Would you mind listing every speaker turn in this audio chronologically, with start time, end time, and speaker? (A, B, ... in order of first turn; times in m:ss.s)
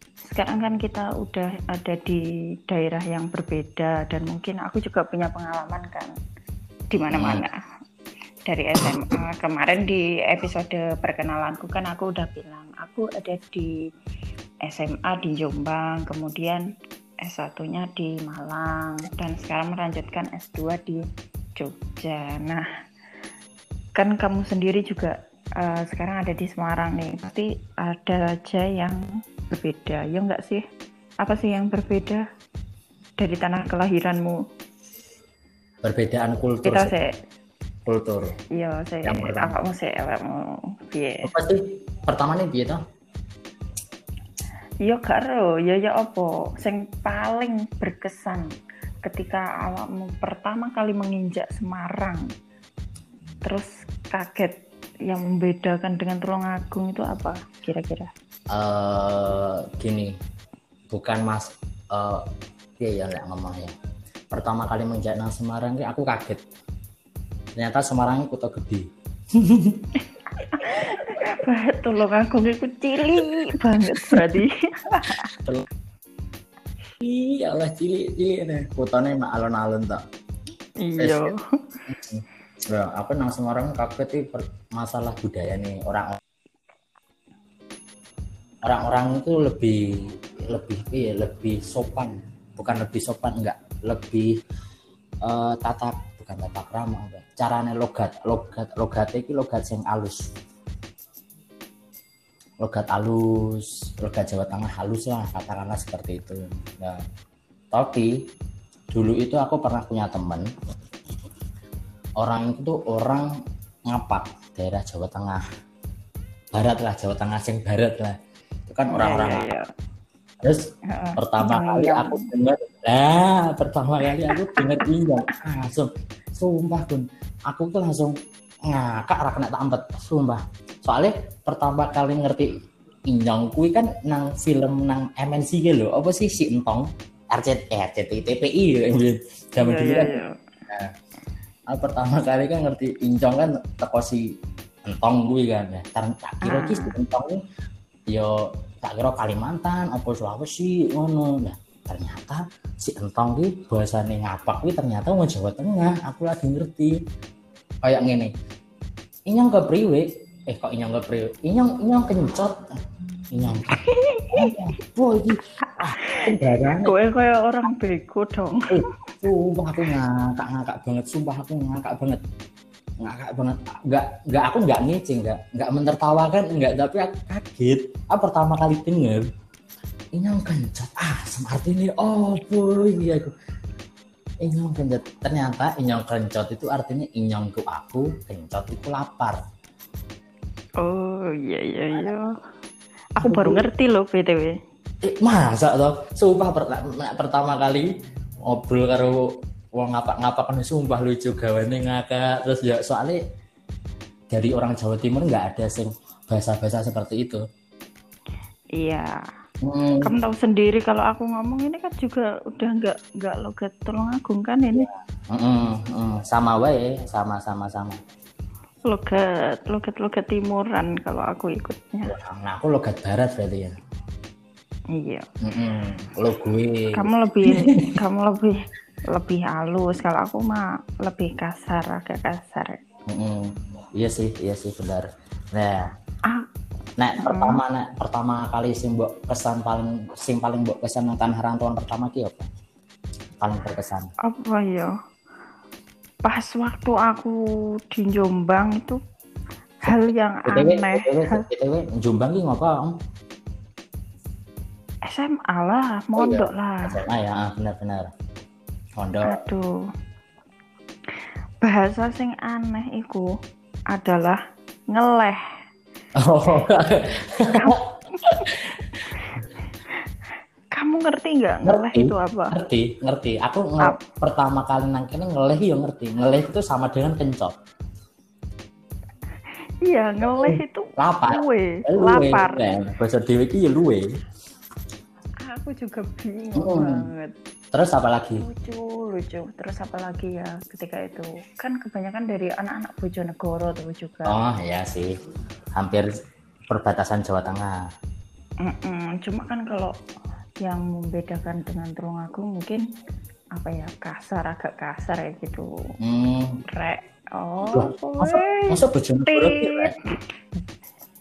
0:00.3-0:06.1 A
0:06.9-0:07.6 A
0:07.1-0:07.4 B
0:08.4-0:13.8 A
0:08.8-0:09.2 B
0:14.6-0:16.6 A
0:17.2-0:21.0 A
0:21.6-0:22.7 A
0:24.0-0:29.0 A
0:29.5-0:30.6 A
0:31.2-0:32.2 A
0:33.2-0:34.4 A
0:35.8-0:36.9 B
0:36.6-0:37.1 A
0:37.9-0:38.3 B
0:38.5-0:41.3 A
0:39.0-0:39.6 B
0:41.2-0:42.8 B
0:44.8-0:48.5 A
0:49.1-0:52.3 A
0:53.4-0:54.6 A
0:55.1-0:58.1 A
0:58.5-1:00.2 B
1:00.9-1:02.2 B
1:02.8-1:03.7 B
1:04.3-1:06.5 B
1:07.6-1:09.9 B
1:10.4-1:15.3 A
1:10.6-1:11.4 B
1:13.2-1:14.4 B
1:15.3-1:15.7 B
1:17.0-1:20.0 B
1:20.8-1:21.4 A
1:21.0-1:21.3 B
1:21.9-1:26.2 B
1:28.6-1:29.8 B
1:30.5-1:34.3 B
1:35.2-1:40.3 B
1:42.6-1:47.0 B
1:47.7-1:48.1 B
1:48.9-1:50.5 B
1:52.2-1:53.3 B
1:53.9-1:55.4 B
1:56.5-1:58.2 B
1:58.7-1:59.6 B
1:58.9-1:59.7 A
2:00.9-2:02.3 A
2:01.2-2:12.6 B
2:04.3-2:04.9 A
2:13.1-2:20.2 B
2:19.6-2:20.3 A
2:21.7-2:24.3 B
2:24.9-2:27.4 B
2:26.4-2:26.9 A
2:28.1-2:37.0 B
2:37.8-2:38.3 B
2:39.3-2:42.8 B
2:43.3-2:43.8 B
2:43.8-2:44.5 A
2:44.3-2:46.9 B
2:46.0-2:48.7 A
2:48.7-2:52.2 B
2:53.0-2:59.3 B
3:00.2-3:03.3 B
3:04.4-3:09.4 B
3:10.8-3:12.3 A
3:13.2-3:14.5 A
3:13.2-3:13.6 B
3:15.0-3:17.9 B
3:18.5-3:23.2 B
3:24.3-3:27.4 B
3:28.8-3:29.2 A
3:29.6-3:30.1 B
3:30.0-3:34.9 A
3:34.7-3:38.0 B
3:38.9-3:42.1 A
3:42.1-3:43.7 B
3:45.0-3:45.2 A
3:45.4-3:47.9 B
3:46.9-3:48.6 A
3:49.1-3:52.8 A
3:53.1-3:55.9 B
3:57.0-4:02.5 B
3:57.2-3:57.6 A
4:03.4-4:04.1 B
4:04.2-4:04.9 A
4:06.2-4:07.4 A
4:07.9-4:09.0 A
4:09.8-4:11.5 A
4:10.5-4:13.0 B
4:15.1-4:17.0 A
4:16.2-4:18.1 B
4:19.0-4:19.4 B
4:19.2-4:19.7 A
4:21.6-4:23.3 A
4:23.9-4:24.4 A
4:24.9-4:25.4 A
4:26.2-4:29.4 B
4:27.6-4:28.5 A
4:30.7-4:32.6 A
4:31.6-4:37.5 B
4:39.8-4:42.6 A
4:40.2-4:44.1 B
4:45.4-4:47.3 A
4:46.6-4:47.1 B
4:47.7-4:48.4 B
4:48.4-4:54.4 A
4:54.3-4:55.1 B
4:55.8-4:56.1 B
4:56.7-4:57.8 B
4:58.6-4:59.9 A
5:00.6-5:02.8 A
5:03.6-5:05.7 A
5:06.0-5:06.6 B
5:06.7-5:10.1 A
5:07.7-5:09.9 B